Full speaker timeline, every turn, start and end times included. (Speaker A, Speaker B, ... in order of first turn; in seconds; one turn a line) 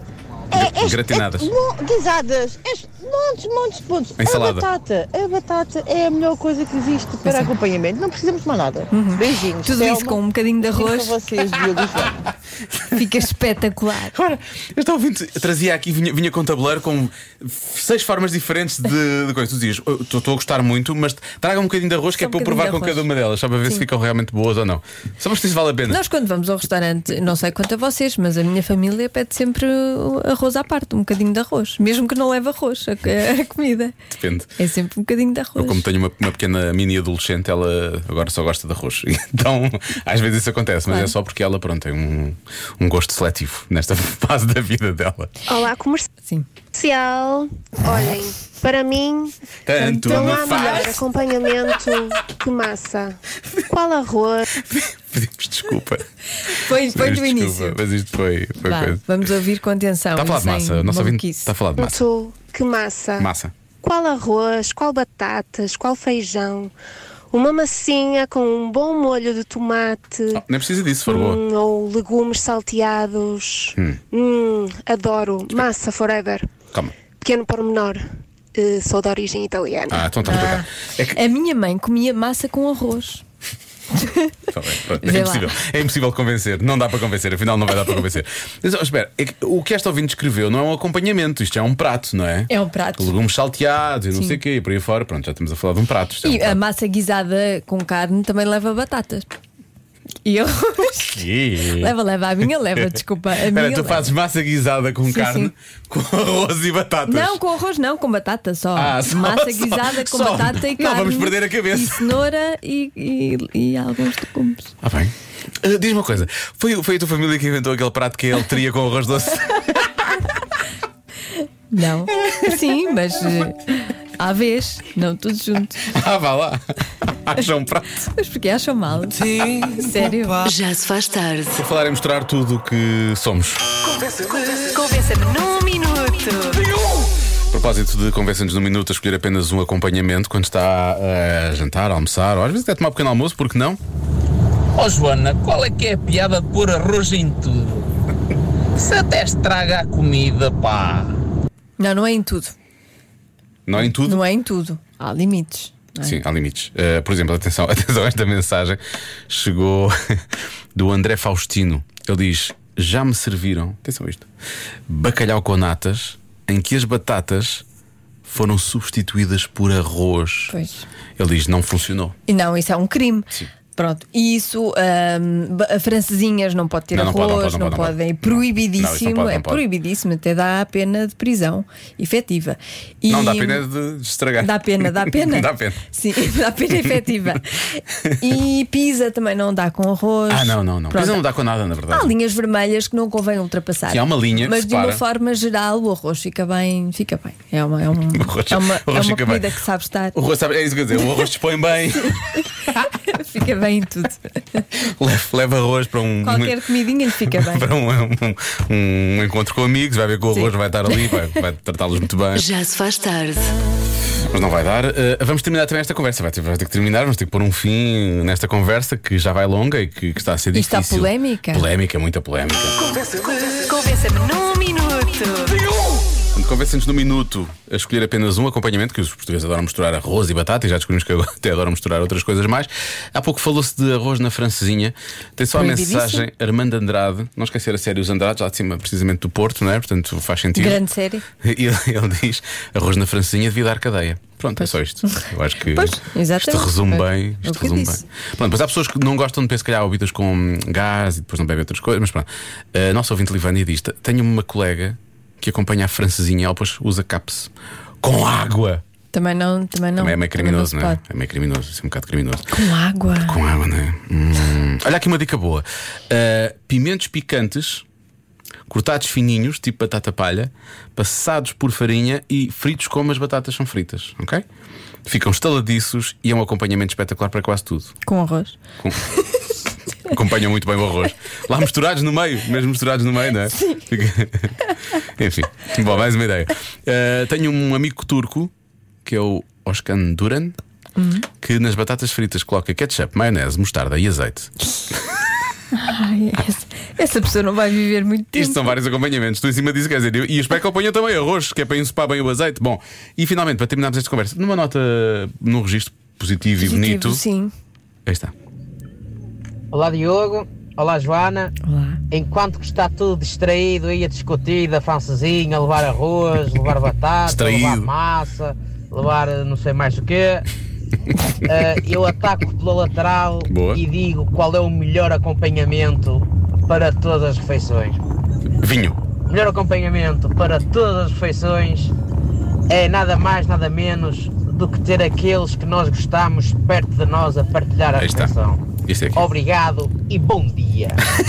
Speaker A: 0.5-10.2
Speaker B: 0.5-1.5
Speaker B: 4.2-4.7
Speaker C: 7.2-7.5
Speaker C: 8.9-11.2
Speaker A: 10.7-12.2
Speaker C: 12.9-14.1
Speaker B: 14.1-26.0
Speaker C: 22.2-23.1
Speaker C: 25.9-34.0
Speaker B: 34.1-34.5
Speaker C: 34.6-35.8
Speaker B: 35.6-45.3
Speaker C: 40.9-41.1
Speaker D: 45.5-46.1
Speaker D: 46.8-54.5
Speaker B: 49.7-51.1
Speaker C: 50.1-50.6
Speaker B: 54.6-59.0
Speaker C: 56.5-57.8
Speaker C: 58.6-61.5
Speaker B: 60.2-62.0
Speaker D: 61.8-63.3
Speaker B: 63.2-63.5
Speaker D: 63.8-66.7
Speaker D: 67.3-70.4
Speaker B: 70.3-71.4
Speaker D: 71.1-76.5
Speaker D: 77.2-80.1
Speaker B: 79.9-81.2
Speaker C: 80.2-83.2
Speaker C: 84.0-84.4
Speaker B: 84.5-96.6
Speaker C: 85.0-85.6
Speaker C: 92.5-93.1
Speaker C: 96.2-99.3
Speaker C: 100.2-104.1
Speaker B: 101.0-101.9
Speaker B: 102.8-107.4
Speaker C: 105.1-105.5
Speaker C: 107.1-114.7
Speaker B: 108.8-112.2
Speaker B: 114.8-120.3
Speaker C: 121.3-125.8
Speaker B: 125.8-128.1
Speaker C: 128.1-130.5
Speaker E: 130.4-131.6
Speaker B: 131.5-133.8
Speaker C: 134.5-136.7
Speaker B: 137.5-143.8
Speaker F: 144.8-147.9
Speaker F: 148.8-151.2
Speaker C: 151.8-152.5
Speaker B: 153.7-154.2
Speaker C: 153.9-156.2
Speaker B: 156.0-164.3
Speaker B: 164.9-167.6
Speaker B: 168.2-170.6
Speaker C: 170.5-170.9
Speaker B: 171.2-172.2
Speaker C: 172.3-183.6
Speaker B: 176.9-179.6
Speaker B: 183.1-185.8
Speaker C: 184.4-191.2
Speaker B: 186.7-187.0
Speaker B: 190.3-192.1
Speaker C: 191.9-200.2
Speaker B: 193.9-195.0
Speaker B: 198.1-199.6
Speaker B: 200.1-202.9
Speaker C: 203.1-204.7
Speaker B: 204.7-206.7
Speaker C: 206.2-207.7
Speaker B: 207.2-212.4
Speaker E: 212.3-213.6
Speaker B: 214.2-222.8
Speaker C: 220.5-221.7
Speaker C: 223.4-225.6
Speaker B: 226.3-240.8
Speaker C: 235.5-236.3
Speaker C: 240.6-241.2
Speaker B: 241.4-258.8
Speaker C: 244.6-248.0
Speaker C: 259.1-261.0
Speaker B: 260.0-262.6
Speaker C: 262.5-263.4
Speaker B: 263.1-267.9
Speaker B: 268.7-274.4
Speaker B: 275.1-278.0
Speaker C: 278.1-278.6
Speaker B: 280.1-288.5
Speaker C: 283.5-283.8
Speaker B: 289.0-290.6
Speaker C: 291.0-291.3
Speaker B: 291.4-295.2
Speaker C: 295.7-298.7
Speaker B: 298.3-307.2
Speaker C: 306.6-307.5
Speaker B: 308.1-308.3
Speaker G: 309.7-311.5
Speaker C: 311.6-312.0
Speaker G: 312.1-320.4
Speaker B: 317.2-317.9
Speaker G: 321.5-328.0
Speaker B: 323.5-323.8
Speaker B: 328.6-329.0
Speaker G: 329.3-331.9
Speaker G: 332.7-338.6
Speaker B: 338.0-339.3
Speaker G: 339.2-341.0